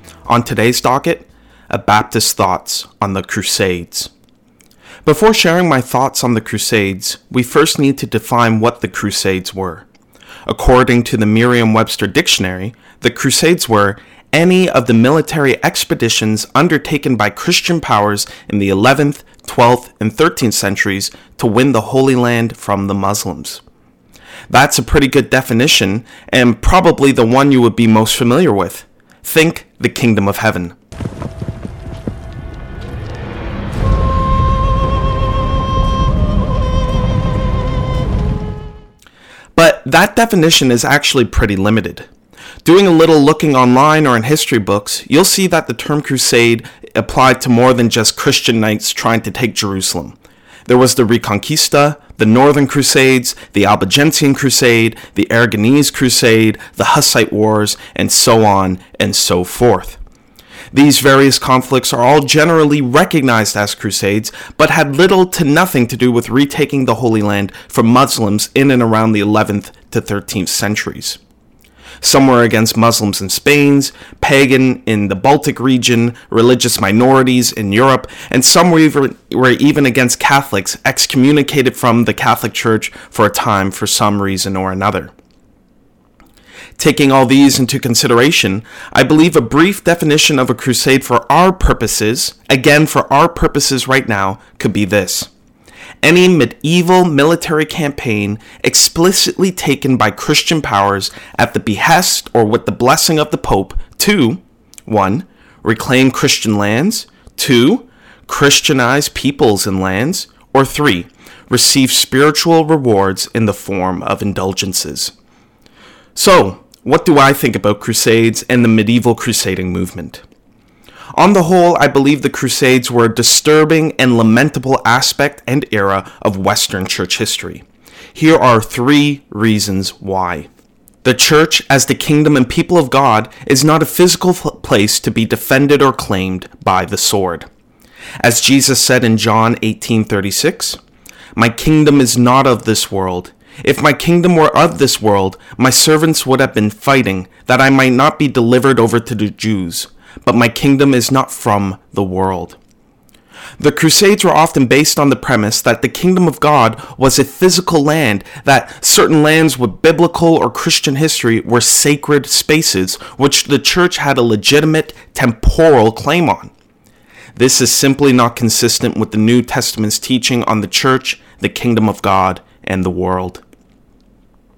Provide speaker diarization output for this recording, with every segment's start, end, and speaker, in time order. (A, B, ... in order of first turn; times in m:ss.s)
0:00.3-0:04.1 A
0:05.0-0:09.9 A
0:10.5-0:23.6 A
0:24.5-0:30.8 A
0:39.6-0:42.1 A
0:42.6-1:00.0 A
1:00.7-1:11.2 A
1:12.0-1:25.1 A
1:26.8-1:35.3 A
1:36.0-1:55.1 A
1:56.2-2:00.2 A
2:01.2-2:10.5 A
2:11.0-2:17.5 A
2:18.2-2:20.8 A
2:21.4-2:32.6 A
2:33.6-2:46.5 A
2:47.4-2:53.4 A